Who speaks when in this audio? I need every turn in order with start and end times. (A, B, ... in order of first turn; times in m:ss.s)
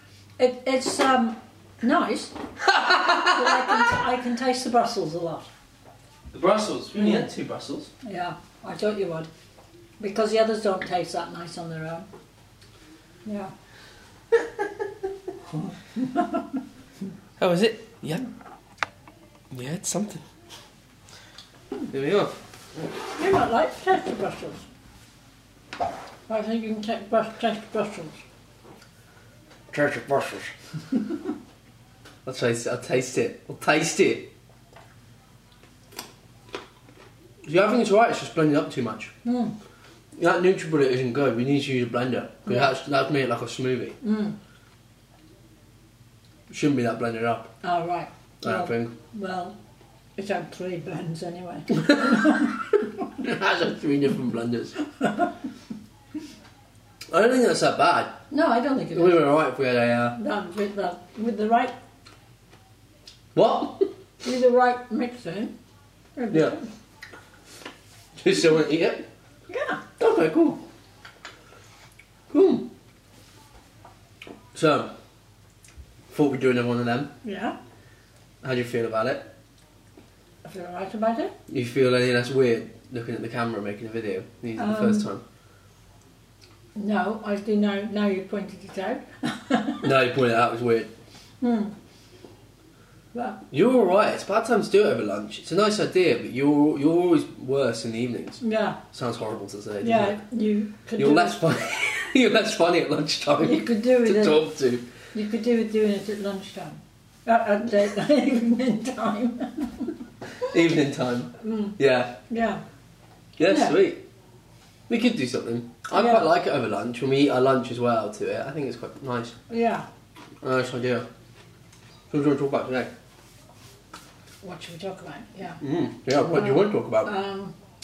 0:00.4-0:02.3 A
0:02.6-0:03.8 B
0:03.2-0:05.5 A
0:06.3-0:07.9 B
0:07.0-0:07.2 A
0:08.0-0:09.3 A
0:10.0-0:12.1 A
0:13.2-0:13.5 A
0:15.6-0:16.6 A
0:17.4-0:18.2 B
0:19.5-0:20.2 B
0:21.9-0:22.4 B
0:23.1-0:24.7 A
0:26.3-0:28.2 A
0:29.7-0:30.5 B
0:32.2-0:34.3 B
0:37.4-0:39.1 B
0:39.2-0:39.5 A
0:40.2-0:44.0 B
0:42.4-0:42.7 A
0:44.0-0:44.4 A
0:46.5-0:47.5 B
0:47.6-0:49.6 A
0:48.4-0:48.9 B
0:50.2-0:52.9 A
0:53.1-0:54.8 B
0:55.0-0:55.3 A
0:57.1-0:58.2 B
0:58.3-0:59.3 A
0:58.9-1:00.2 B
1:00.1-1:01.8 A
1:03.3-1:03.8 B
1:04.2-1:05.5 A
1:06.2-1:06.7 A
1:08.2-1:09.0 B
1:09.5-1:09.8 A
1:10.0-1:10.6 B
1:12.3-1:12.7 B
1:14.5-1:14.9 B
1:16.1-1:17.1 B
1:17.2-1:17.6 A
1:18.4-1:19.3 B
1:20.4-1:21.3 A
1:21.5-1:25.2 B
1:24.6-1:25.1 A
1:26.8-1:29.9 A
1:29.8-1:30.9 B
1:31.4-1:31.7 A
1:33.1-1:33.4 A
1:33.5-1:38.4 B
1:38.4-1:38.8 A
1:38.9-1:40.2 B
1:39.8-1:41.5 A
1:41.0-1:44.9 B
1:43.4-1:44.5 A
1:45.1-1:49.9 A
1:50.4-1:52.2 B
1:51.4-1:51.8 A
1:52.3-1:52.6 A
1:53.4-1:54.0 B
1:53.4-1:53.8 A
1:54.9-1:59.4 B
1:55.9-1:56.3 A
1:59.5-1:59.9 A
2:00.4-2:01.1 B
2:02.1-2:02.9 B
2:04.4-2:05.6 A
2:05.6-2:07.1 B
2:06.2-2:07.6 A